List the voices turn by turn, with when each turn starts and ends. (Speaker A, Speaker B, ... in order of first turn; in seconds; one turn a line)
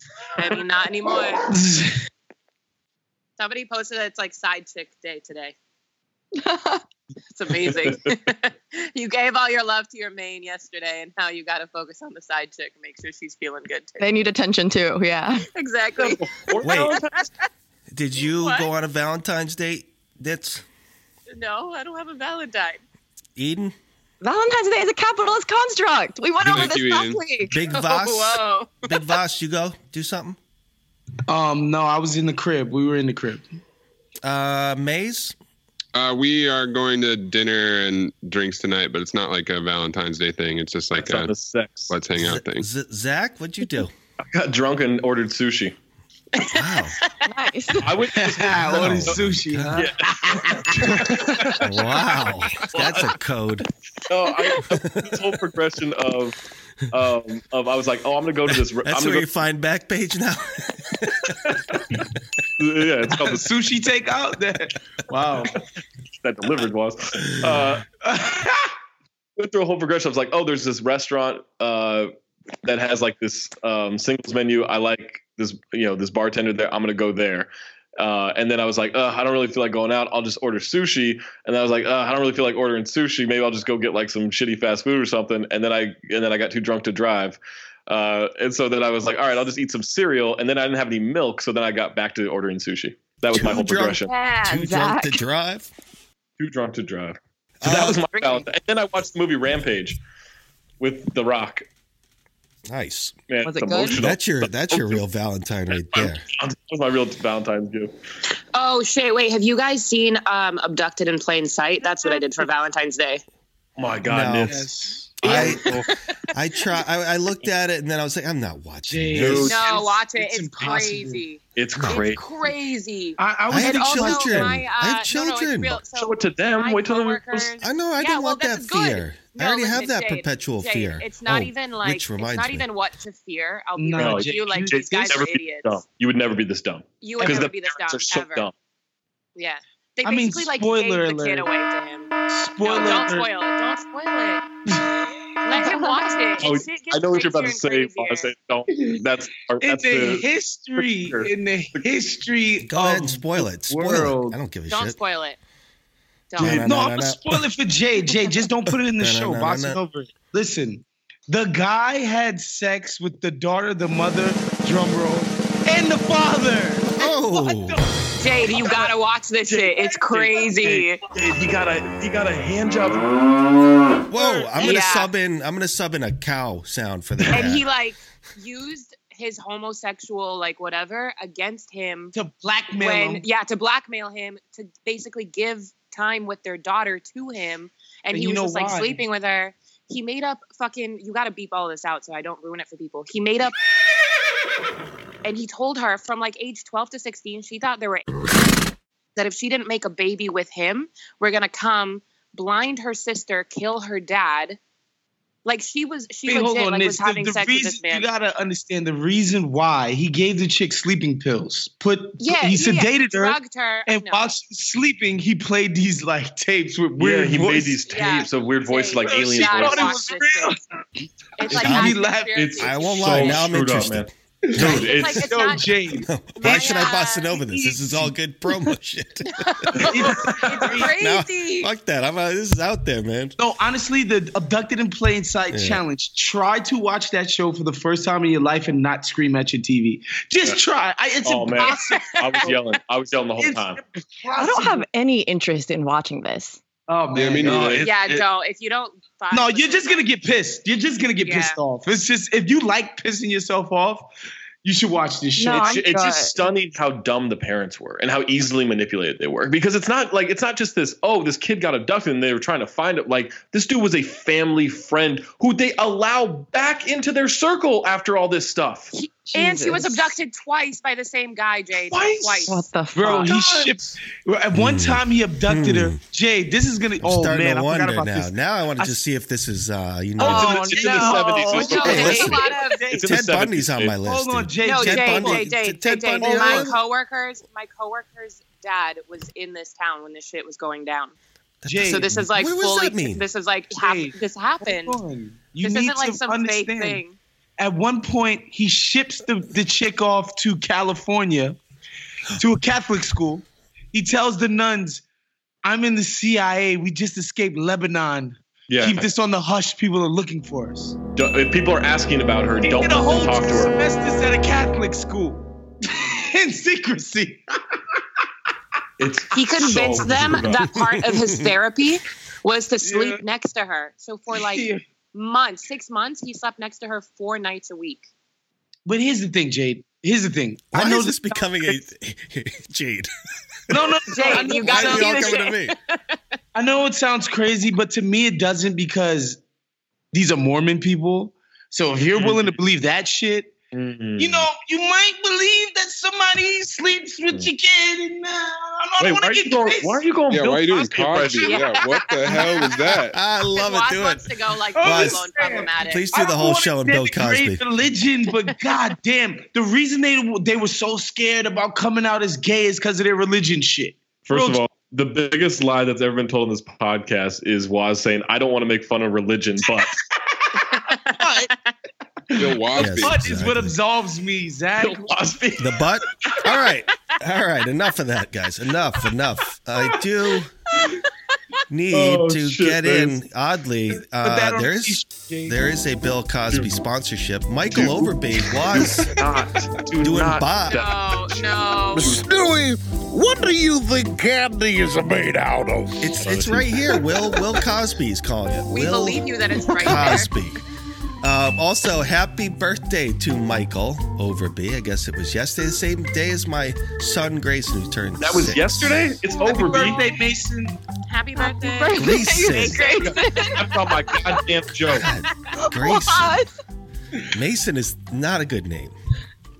Speaker A: 0.4-1.4
Speaker B: 1.5-2.0
Speaker A: 3.4-5.5
Speaker C: 6.4-6.8
Speaker A: 7.3-14.1
Speaker D: 7.7-8.1
Speaker C: 14.0-15.5
Speaker A: 15.5-16.2
Speaker D: 16.0-17.2
Speaker E: 16.6-17.0
Speaker E: 17.9-20.6
Speaker A: 18.2-18.7
Speaker A: 21.3-22.8
Speaker E: 23.4-23.7
Speaker C: 24.2-27.6
Speaker F: 26.4-27.2
Speaker E: 27.5-30.4
Speaker A: 27.7-28.7
Speaker B: 31.3-33.4
Speaker E: 34.2-35.4
Speaker F: 35.9-41.3
Speaker D: 40.9-41.9
Speaker F: 41.9-42.6
Speaker E: 42.2-43.9
Speaker D: 44.3-45.7
Speaker A: 46.4-47.0
Speaker E: 46.5-47.0
Speaker C: 47.2-47.9
Speaker D: 47.8-49.2
Speaker E: 48.2-49.9
Speaker B: 48.2-51.6
Speaker D: 49.8-51.6
Speaker E: 51.6-53.6
Speaker D: 52.7-53.1
Speaker D: 54.1-56.4
Speaker E: 54.7-55.1
Speaker D: 56.9-59.3
Speaker E: 58.8-61.3
Speaker D: 61.4-62.0
Speaker D: 62.6-63.5
Speaker B: 63.2-65.6
Speaker D: 66.2-67.8
Speaker B: 68.0-68.7
Speaker D: 69.4-72.1
Speaker D: 72.6-94.1
Speaker E: 93.3-95.7
Speaker C: 94.1-95.2
Speaker D: 96.4-100.0
Speaker E: 97.6-98.0
Speaker D: 100.8-101.7
Speaker E: 102.7-103.2
Speaker D: 103.3-105.0
Speaker C: 103.4-104.0
Speaker E: 103.9-106.2
Speaker D: 105.8-107.9
Speaker A: 108.5-113.2
Speaker D: 113.8-114.6
Speaker E: 114.0-114.6
Speaker B: 114.4-115.5
Speaker E: 115.2-115.8
Speaker D: 115.2-115.8
Speaker E: 116.3-119.6
Speaker B: 118.8-121.2
Speaker D: 119.2-119.5
Speaker A: 119.4-135.8
Speaker D: 121.5-122.3
Speaker E: 121.7-122.1
Speaker B: 123.2-124.5
Speaker E: 123.5-125.8
Speaker D: 125.9-127.5
Speaker E: 127.6-132.7
Speaker B: 133.8-135.2
Speaker D: 134.0-138.5
Speaker A: 137.0-138.5
Speaker A: 139.3-142.1
Speaker B: 140.0-141.5
Speaker B: 142.3-143.3
Speaker A: 142.6-144.4
Speaker B: 144.7-145.1
Speaker A: 145.4-148.3
Speaker D: 146.4-151.8
Speaker B: 149.6-154.4
Speaker E: 152.6-155.0
Speaker A: 154.7-155.4
Speaker A: 156.3-156.7
Speaker E: 156.4-157.4
Speaker B: 156.4-168.9
Speaker E: 158.8-159.8
Speaker E: 167.0-167.8
Speaker A: 168.2-171.0
Speaker B: 169.5-170.5
Speaker D: 170.1-173.1
Speaker E: 174.1-177.6
Speaker B: 174.1-174.7
Speaker A: 174.6-175.1
Speaker A: 177.3-182.1
Speaker B: 182.1-183.2
Speaker A: 182.8-193.5
Speaker B: 188.1-189.0
Speaker A: 195.2-198.1
Speaker A: 199.2-204.6
Speaker A: 205.4-208.1
Speaker B: 206.2-217.8
Speaker A: 212.2-214.3
Speaker D: 217.0-220.1
Speaker A: 217.9-220.6
Speaker B: 219.0-220.6
Speaker A: 221.4-223.4
Speaker B: 221.4-222.3
Speaker E: 221.5-222.0
Speaker D: 222.3-225.2
Speaker E: 222.6-224.9
Speaker B: 224.5-228.1
Speaker A: 224.7-225.7
Speaker E: 226.0-229.8
Speaker A: 226.3-227.3
Speaker A: 229.4-231.7
Speaker B: 229.8-230.9
Speaker E: 230.9-233.4
Speaker B: 233.4-242.5
Speaker E: 235.5-235.8
Speaker D: 241.2-243.8
Speaker A: 241.6-242.5
Speaker B: 243.4-244.8
Speaker C: 244.3-246.6
Speaker B: 246.9-248.0
Speaker F: 247.1-247.8
Speaker D: 247.4-248.2
Speaker A: 247.8-250.1
Speaker B: 249.3-254.1
Speaker A: 251.2-251.6
Speaker B: 254.6-255.8
Speaker C: 255.3-256.4
Speaker D: 255.6-268.9
Speaker A: 268.9-273.3
Speaker C: 269.2-270.1
Speaker D: 271.9-272.4
Speaker C: 272.4-273.4
Speaker B: 272.9-279.0
Speaker D: 273.2-273.9
Speaker E: 274.5-276.0
Speaker E: 277.0-280.6
Speaker B: 280.2-283.2
Speaker C: 280.2-282.3
Speaker D: 280.2-282.2
Speaker A: 281.5-282.8
Speaker E: 281.8-282.4
Speaker D: 282.9-283.9
Speaker E: 283.0-286.7
Speaker B: 284.0-285.5
Speaker A: 284.6-291.1
Speaker B: 286.2-286.8
Speaker E: 291.6-293.2
Speaker B: 291.7-292.1
Speaker A: 291.8-295.0
Speaker B: 293.7-297.0
Speaker A: 295.6-297.2
Speaker B: 297.6-301.6
Speaker B: 302.3-305.0
Speaker B: 305.6-311.0
Speaker D: 308.7-309.1
Speaker D: 311.1-313.7
Speaker B: 312.6-318.0
Speaker D: 319.0-320.6
Speaker A: 319.3-328.1
Speaker E: 320.5-321.5
Speaker B: 322.8-323.2
Speaker B: 324.3-324.8
Speaker B: 328.9-331.2
Speaker E: 330.7-333.1
Speaker B: 333.7-335.2
Speaker A: 334.1-336.1
Speaker E: 334.2-335.7
Speaker B: 336.5-339.4
Speaker B: 340.1-343.5
Speaker D: 342.1-342.6
Speaker D: 343.7-344.5
Speaker B: 344.2-350.0
Speaker D: 349.0-351.7
Speaker F: 350.3-353.2
Speaker A: 351.4-352.7
Speaker E: 353.1-355.2
Speaker A: 353.5-356.1
Speaker B: 354.7-364.6
Speaker E: 355.8-357.6
Speaker D: 364.2-369.9
Speaker A: 370.6-371.7
Speaker B: 371.2-371.5
Speaker B: 372.3-375.4
Speaker F: 372.4-373.3
Speaker E: 372.8-373.8
Speaker D: 374.8-375.7
Speaker E: 375.6-380.5
Speaker E: 381.7-389.1
Speaker D: 381.9-383.2
Speaker B: 384.2-385.7
Speaker D: 388.7-392.2
Speaker E: 390.0-390.8
Speaker A: 390.7-392.1
Speaker G: 391.9-396.1
Speaker E: 396.0-400.6
Speaker D: 396.2-396.7
Speaker A: 398.7-400.3
Speaker E: 401.2-409.1
Speaker D: 408.2-410.0
Speaker B: 409.3-410.8
Speaker A: 411.1-413.2
Speaker C: 411.4-414.4
Speaker E: 411.9-412.8
Speaker D: 413.5-415.1
Speaker E: 414.9-416.4
Speaker C: 415.6-416.5
Speaker E: 417.3-418.9